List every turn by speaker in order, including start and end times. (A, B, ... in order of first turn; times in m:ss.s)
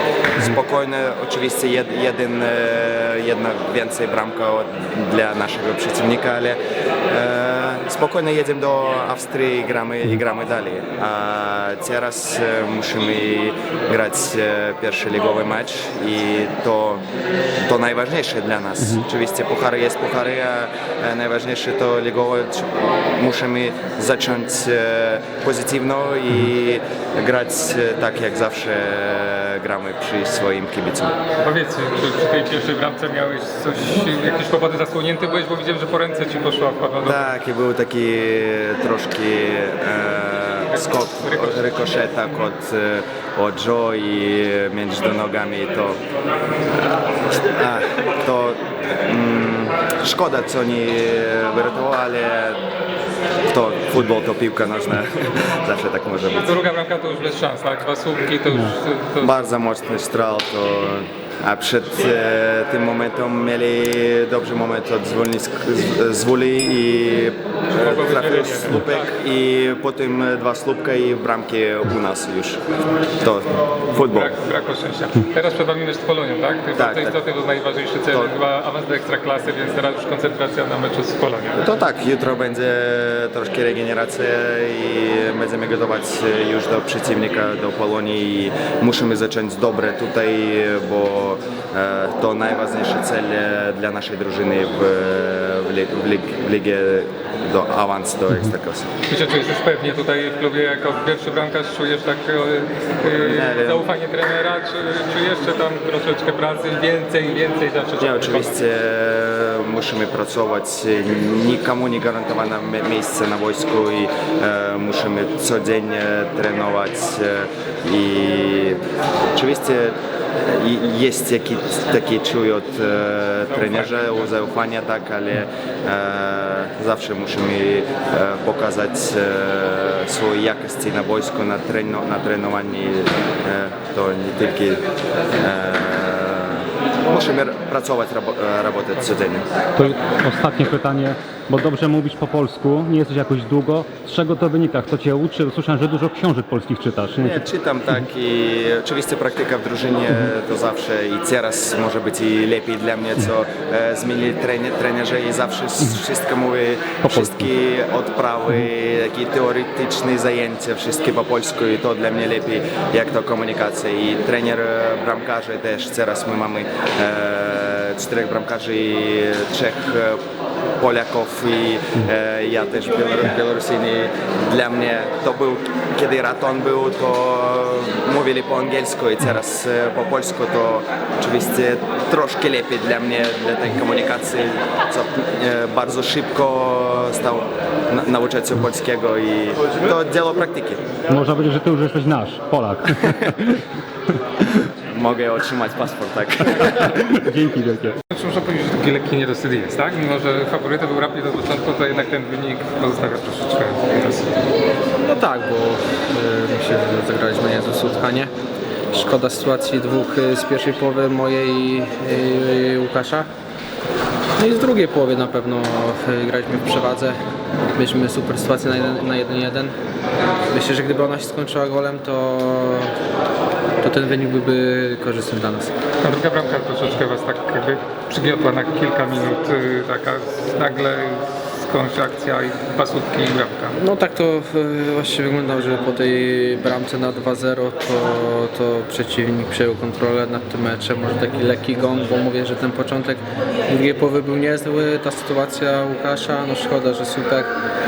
0:00.4-0:06.6 A
0:07.1-0:17.0 A
0:17.6-0:31.2 A
0:31.4-0:37.2 B
0:37.0-0:46.0 A
0:40.7-0:42.3 B
0:46.8-0:52.6 A
0:53.5-0:56.5 A
0:56.4-0:59.4 B
0:59.2-1:12.6 A
1:07.7-1:09.1 B
1:13.2-1:14.3 A
1:14.0-1:21.6 B
1:16.8-1:17.2 A
1:21.6-1:38.9 A
1:39.1-1:48.6 B
1:43.0-1:43.9 A
1:48.0-1:58.8 A
1:59.4-2:14.8 A
2:03.5-2:04.3 B
2:15.4-2:19.5 A
2:19.8-2:27.4 C
2:27.2-2:50.2 A
2:37.0-2:37.5 C
2:50.8-3:10.8 A
3:11.1-3:13.6 C
3:14.9-3:17.0 A
3:17.0-3:18.0 C
3:18.1-3:24.3 B
3:25.0-3:28.3 D
3:28.9-3:33.3 D
3:34.4-3:37.2 D
3:37.8-3:39.8 D
3:40.5-3:42.9 D
3:43.8-3:45.7 D
3:46.0-3:53.8 B
3:53.8-4:07.5 D